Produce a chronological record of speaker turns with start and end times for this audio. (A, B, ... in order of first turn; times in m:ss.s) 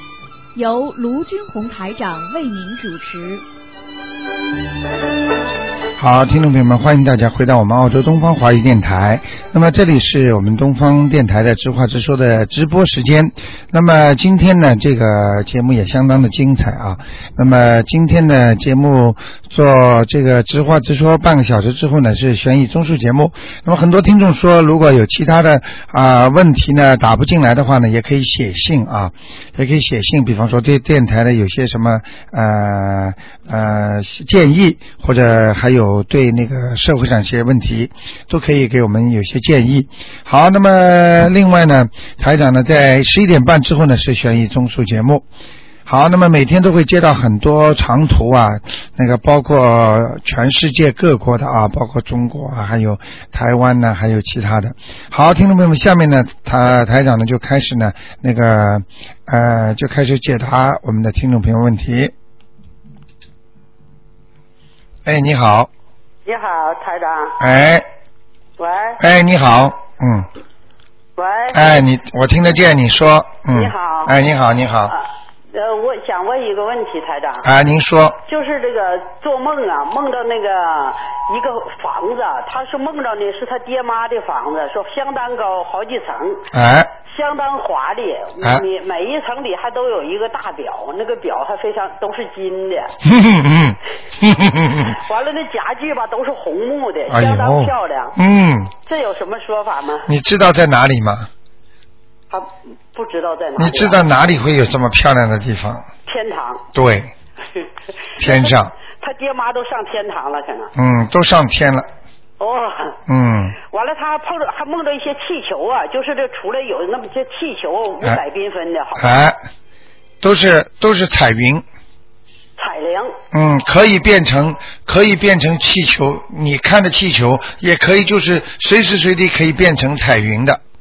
0:00.6-0:03.4 A
0:06.0-0:45.2 B
0:45.9-1:02.1 B
1:05.0-1:05.7 B
1:06.3-1:07.4 C
1:07.4-1:07.9 B
1:08.6-1:09.0 C
1:09.0-1:10.3 B
1:11.2-1:11.8 C
1:11.5-1:14.9 B
1:13.5-1:14.2 C
1:14.9-1:17.5 C
1:17.4-1:18.2 B
1:18.3-1:26.5 C
1:26.5-1:26.9 B
1:27.0-1:32.9 C
1:33.0-1:35.0 B
1:34.6-1:38.2 C
1:37.1-1:38.7 B
1:38.8-1:40.1 C
1:40.1-1:41.3 B
1:42.3-1:44.0 C
1:43.6-1:45.9 B
1:46.1-1:46.6 C
1:46.7-1:47.1 B
1:48.2-1:50.7 C
1:48.2-1:48.7 B
1:50.8-1:51.9 B
1:52.4-1:53.0 C
1:53.1-1:53.6 B
1:53.6-1:59.1 C
1:59.0-1:59.4 B
2:00.2-2:01.6 B
2:02.6-2:03.1 C
2:03.3-2:10.6 B